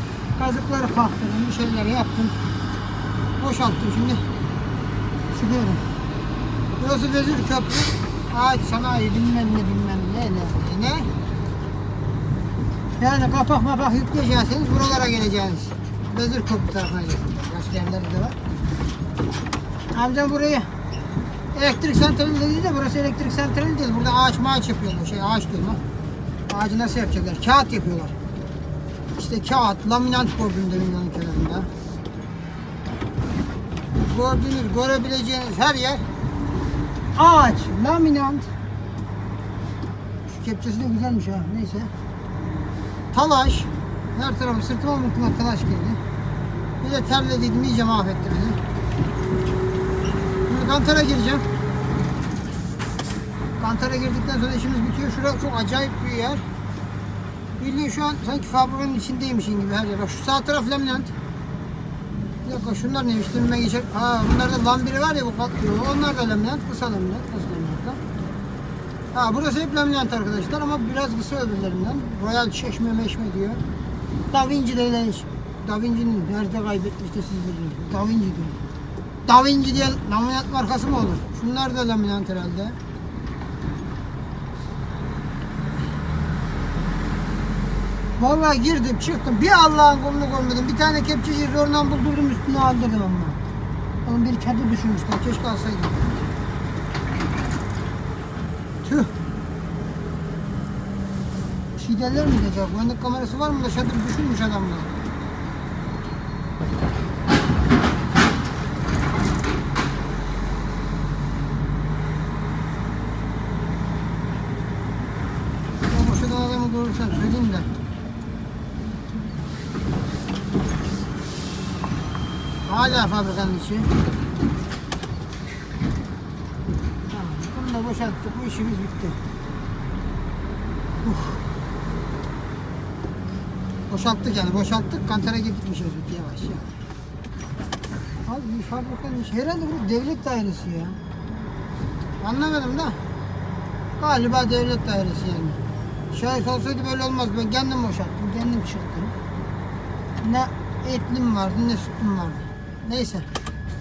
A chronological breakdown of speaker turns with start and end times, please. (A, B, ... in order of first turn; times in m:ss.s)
0:00.4-0:02.3 A
0:03.4-0:04.2 A
0:05.3-0:05.8 A
0:06.8-0:11.1 A
0:13.0-0:18.3 A
0:19.9-0:20.7 A
0:21.5-0:25.8 A
0:26.5-0:28.1 A
0:29.1-0:31.7 A
0:33.9-0:36.0 A
0:37.2-0:38.5 A
0:40.3-0:41.9 A
0:43.1-0:46.0 A
0:46.8-0:48.6 A
0:50.5-0:51.4 A
0:53.6-0:56.4 A
0:57.6-1:01.1 A
1:02.4-1:08.0 A
1:09.1-1:13.6 A
1:14.3-1:18.6 A
1:19.2-1:22.8 A
1:28.2-1:33.4 A
1:34.0-1:36.1 A
1:38.8-1:39.1 A
1:41.8-1:44.9 A
1:55.9-1:57.7 A
2:02.7-2:03.9 A
2:07.1-2:09.2 A
2:11.0-2:11.4 A
2:13.9-2:16.7 A
2:18.2-2:21.0 A
2:22.2-2:23.0 A
2:24.0-2:25.6 A
2:26.1-2:29.1 A
2:30.2-2:33.3 A